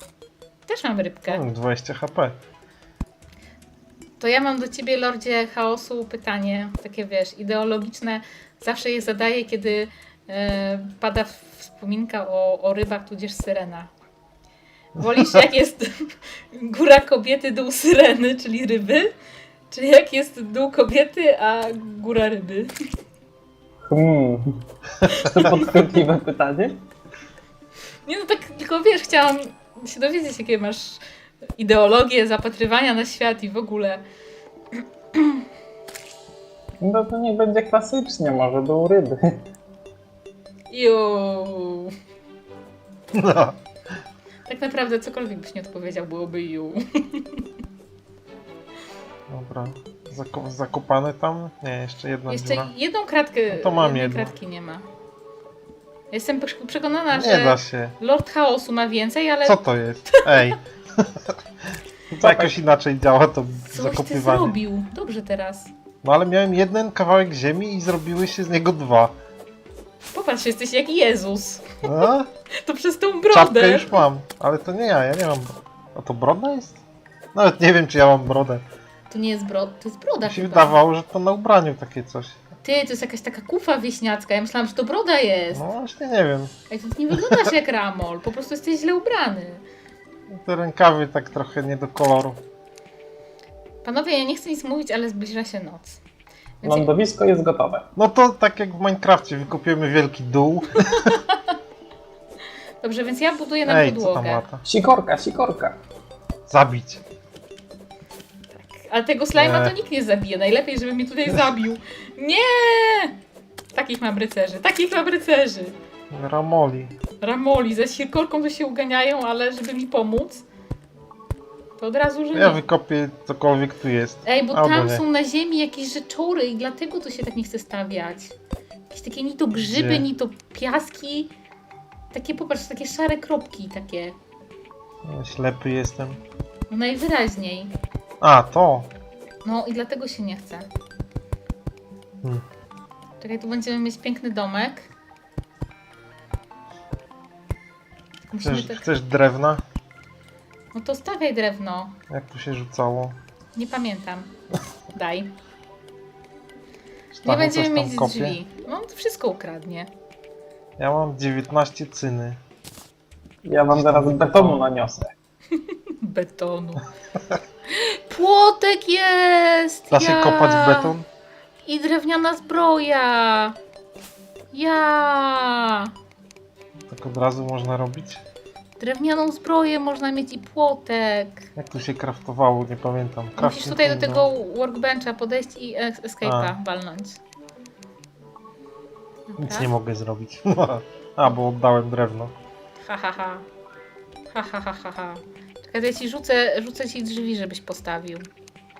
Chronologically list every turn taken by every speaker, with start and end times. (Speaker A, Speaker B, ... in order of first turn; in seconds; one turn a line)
Speaker A: 0.7-1.4
Speaker B: 1.3-2.4
Speaker A: 4.2-13.9
Speaker A: 14.9-15.9
Speaker A: 16.5-19.1
Speaker A: 19.7-22.7
Speaker C: 23.9-26.8
Speaker A: 25.0-25.6
Speaker A: 28.1-31.0
Speaker A: 31.6-34.0
Speaker A: 35.1-35.4
Speaker C: 36.8-39.4
Speaker A: 40.7-41.9
Speaker B: 43.1-43.6
Speaker A: 44.5-47.4
Speaker B: 49.3-52.7
Speaker A: 52.3-54.9
Speaker B: 53.5-54.3
Speaker A: 56.1-60.5
Speaker B: 57.1-58.0
Speaker B: 59.4-61.3
Speaker B: 62.1-64.6
Speaker C: 62.2-62.5
Speaker A: 63.7-65.7
Speaker B: 66.0-69.1
Speaker A: 70.1-72.0
Speaker B: 71.8-72.3
Speaker A: 72.6-74.0
Speaker B: 73.3-76.8
Speaker B: 77.3-78.6
Speaker A: 79.1-80.8
Speaker B: 80.2-82.3
Speaker A: 82.6-85.6
Speaker B: 85.5-86.5
Speaker A: 86.7-89.6
Speaker B: 87.1-87.5
Speaker B: 90.3-92.4
Speaker A: 93.8-96.0
Speaker A: 96.6-96.9
Speaker C: 96.6-97.8
Speaker B: 98.0-101.2
Speaker A: 101.0-101.5
Speaker A: 102.8-104.4
Speaker B: 103.6-104.6
Speaker C: 104.6-105.8
Speaker B: 106.5-107.0
Speaker A: 108.5-113.2
Speaker B: 109.3-109.7
Speaker A: 113.7-115.7
Speaker B: 116.1-116.9
Speaker A: 117.2-120.4
Speaker A: 121.8-122.6
Speaker B: 122.3-125.0
Speaker A: 124.2-128.3
Speaker A: 128.9-131.3
Speaker B: 129.6-130.1
Speaker A: 132.1-134.2
Speaker B: 135.0-136.2
Speaker A: 136.7-137.7
Speaker B: 138.2-138.9
Speaker A: 139.4-140.7
Speaker A: 143.2-144.9
Speaker A: 148.2-148.8
Speaker B: 148.4-149.6
Speaker A: 150.7-151.9
Speaker B: 152.1-153.2
Speaker A: 153.5-154.3
Speaker A: 154.9-155.3
Speaker B: 157.1-158.4
Speaker A: 157.2-159.9
Speaker B: 160.8-162.4
Speaker C: 163.4-165.1
Speaker B: 163.7-164.6
Speaker A: 165.5-166.9
Speaker A: 167.7-170.9
Speaker B: 169.9-171.0
Speaker A: 171.6-173.6
Speaker A: 174.5-175.9
Speaker B: 176.9-178.2
Speaker A: 178.8-181.4
Speaker B: 181.6-184.3
Speaker A: 183.4-187.2
Speaker B: 186.2-186.5
Speaker A: 189.3-189.7
Speaker B: 189.4-192.3
Speaker A: 192.8-193.4
Speaker A: 194.3-198.2